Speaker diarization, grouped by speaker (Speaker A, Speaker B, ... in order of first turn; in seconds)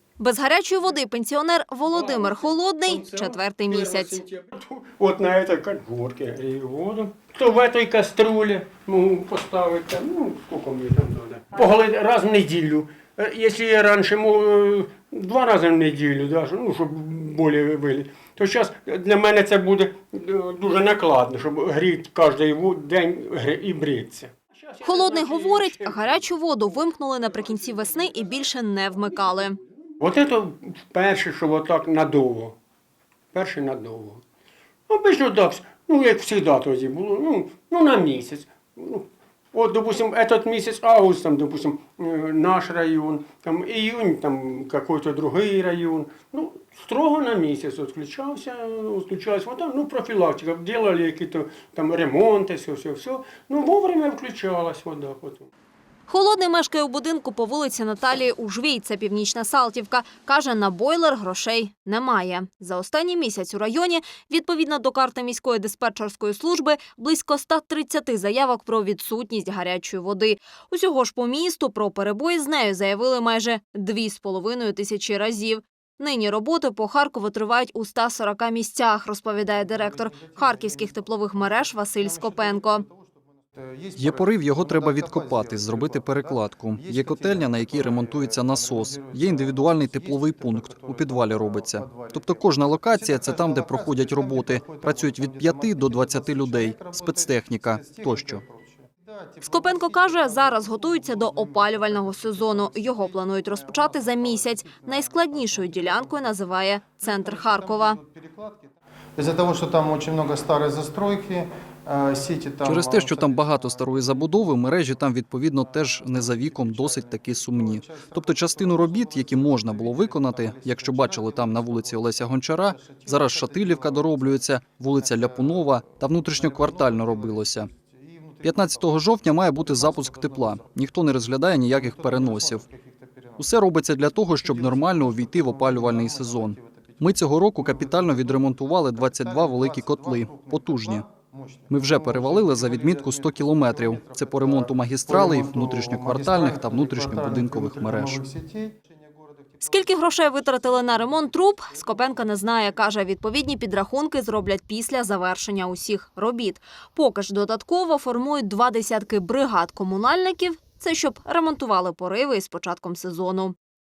Speaker A: 0.2-4.2, 24.8-29.6, 56.1-82.8, 99.4-108.0, 149.6-163.6
Speaker B: 1.9-32.6, 33.3-34.2, 34.9-55.5
Speaker C: 79.4-106.3, 107.0-114.4, 115.6-124.5, 125.0-130.7, 131.7-133.5, 134.4-137.1, 137.6-152.9
Speaker D: 84.0-98.4, 112.6-127.7, 128.4-132.7, 133.4-141.1, 141.7-148.2